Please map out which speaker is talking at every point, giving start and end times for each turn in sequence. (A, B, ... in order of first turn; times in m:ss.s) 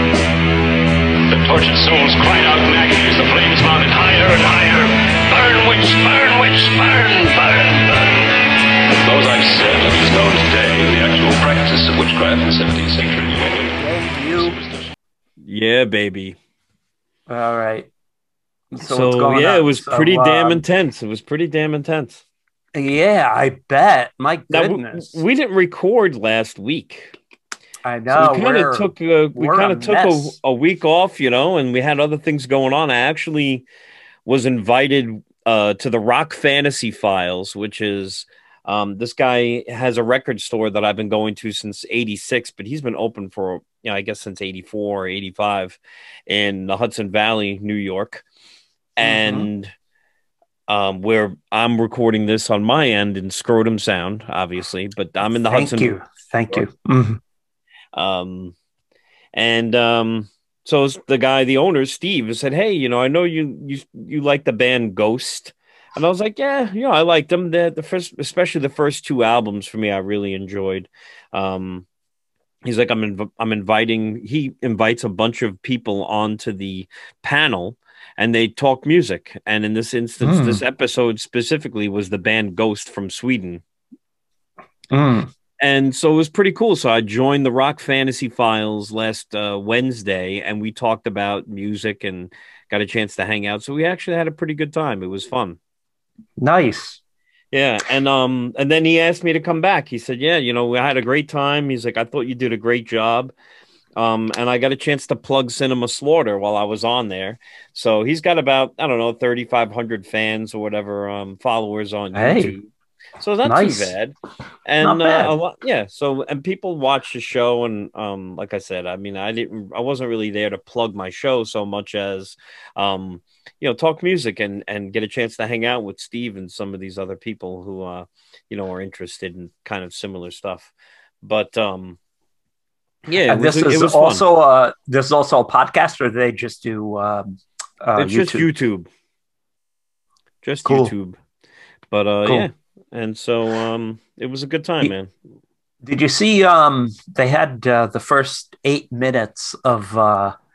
0:01.3-0:08.3 A
0:09.0-0:13.8 A
0:13.8-0:14.6 B
0:15.4-0:16.4 C
0:17.3-0:17.9 B
0:18.7-0:20.6 B
0:18.8-0:22.2 C
0:22.8-0:25.2 B
0:24.5-0:27.2 C
0:27.8-0:30.4 B
0:28.1-0:33.6 C
0:34.2-0:48.2 C
0:49.0-0:49.7 C
0:49.0-0:49.5 B
0:50.7-0:55.9 C
0:55.5-0:57.2 B
0:57.9-0:58.6 C
0:59.3-1:11.9 C
1:12.6-1:23.6 C
1:20.2-1:20.6 B
1:24.9-1:25.3 B
1:25.6-1:35.6 C
1:36.4-1:37.0 B
1:37.5-1:43.3 C
1:44.0-2:10.7 C
1:52.1-1:52.6 B
1:53.4-1:53.9 B
1:54.8-1:55.3 B
2:11.2-2:12.0 C
2:13.1-2:14.2 C
2:13.3-2:18.5 B
2:18.0-2:18.9 C
2:20.4-2:21.2 C
2:20.6-2:20.9 B
2:21.9-2:25.1 C
2:25.8-2:30.4 B